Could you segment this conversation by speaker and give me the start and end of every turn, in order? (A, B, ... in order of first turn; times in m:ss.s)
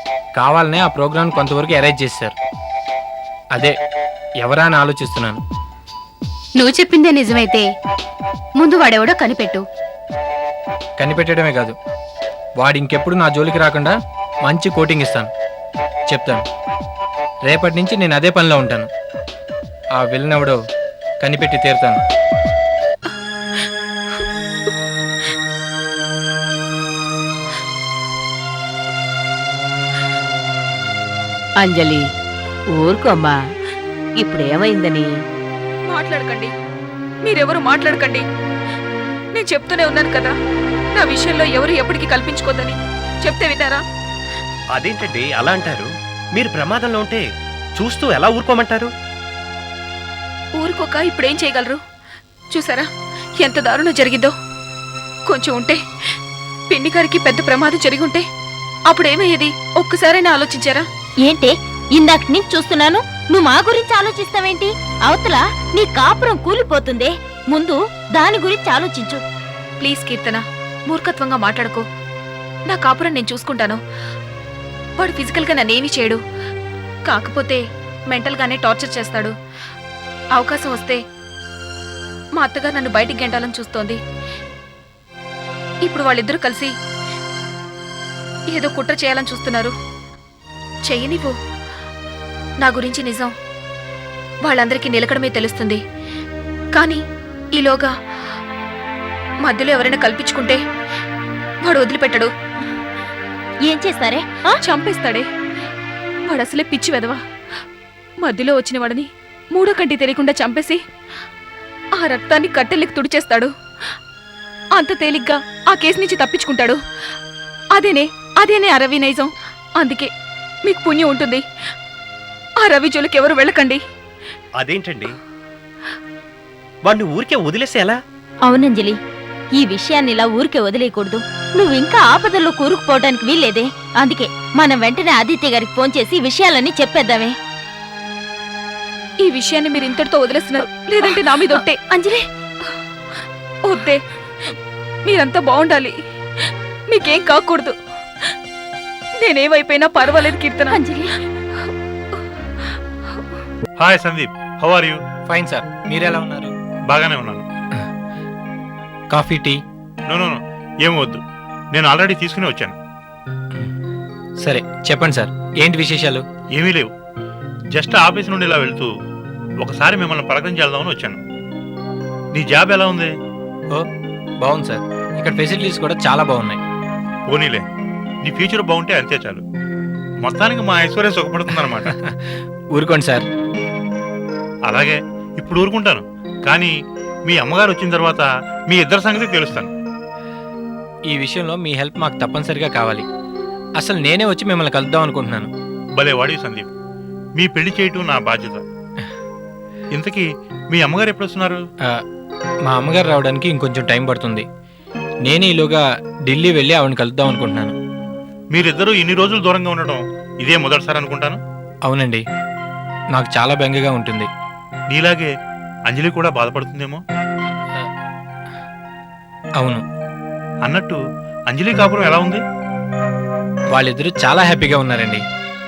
0:00.4-0:02.4 A
0:04.4-0:05.4 A
0:06.6-0:07.7 B
0:08.6-0:09.6 B
0:11.0-0:11.8 A
0:12.6-0:13.9 A
0:14.4-0:15.3 A
0:16.1-0:16.4 A
0:17.5-0:18.9 A
0:20.0-0:20.6 A
0:21.2-0:22.0 A
0:31.6-0:32.0 C
0:32.8-0:33.4 C
0:34.2-0:35.1 C
0:35.9-0:36.5 D
0:37.2-0:38.2 D
0:39.4-0:40.3 D
0:41.0-0:43.8 D
0:44.8-0:47.2 E
0:47.8-0:48.9 E
0:50.6-0:51.8 D
0:52.5-0:52.9 D
0:53.4-0:54.3 D
0:55.3-0:55.8 D
0:56.7-0:58.2 D
0:58.9-1:00.8 D
1:01.2-1:09.2 F
1:09.8-1:11.8 D
1:12.7-1:13.8 D
1:15.0-1:16.2 D
1:17.1-1:19.3 D
1:20.4-1:21.0 D
1:22.4-1:24.0 D
1:25.9-1:26.7 D
1:28.5-1:29.7 D
1:30.9-1:31.3 D
1:32.6-1:33.3 D
1:34.4-1:35.8 D
1:36.8-1:37.0 D
1:37.6-1:37.9 D
1:39.4-1:40.6 D
1:41.6-1:42.3 D
1:43.6-1:44.6 F
1:44.6-1:45.2 D
1:46.3-1:47.2 D
1:48.2-1:50.8 D
1:52.0-1:53.5 D
1:54.8-1:56.8 D
1:57.8-2:00.1 D
2:00.7-2:01.4 D
2:02.6-2:03.8 D
2:04.6-2:05.1 E
2:06.8-2:08.0 E
2:08.4-2:09.0 F
2:09.5-2:17.3 F
2:19.2-2:21.8 D
2:21.0-2:22.2 F
2:23.7-2:24.0 D
2:25.1-2:25.9 D
2:26.9-2:27.7 D
2:29.2-2:30.8 D
2:30.7-2:31.1 F
2:33.8-2:35.0 G
2:35.3-2:36.5 A
2:36.9-2:37.4 G
2:39.1-2:39.6 A
2:40.1-2:41.2 G
2:41.7-2:42.8 G
2:44.4-2:46.2 A
2:46.6-2:46.9 G
2:47.7-2:48.9 G
2:49.6-2:51.2 G
2:52.4-2:53.1 G
2:54.4-2:56.6 A
2:57.3-2:57.6 G
2:58.2-2:59.4 G
3:00.2-3:01.9 G
3:02.8-3:03.3 A
3:04.7-3:06.7 G
3:07.3-3:09.7 G
3:11.1-3:13.0 A
3:13.8-3:15.5 A
3:16.0-3:16.7 G
3:17.4-3:18.6 G
3:19.9-3:21.6 G
3:22.7-3:24.5 A
3:25.2-3:27.8 A
3:28.5-3:31.4 G
3:31.9-3:32.2 A
3:33.1-3:34.3 A
3:34.9-3:35.3 G
3:35.9-3:37.0 G
3:40.7-3:41.0 G
3:41.5-3:42.4 G
3:43.7-3:45.2 A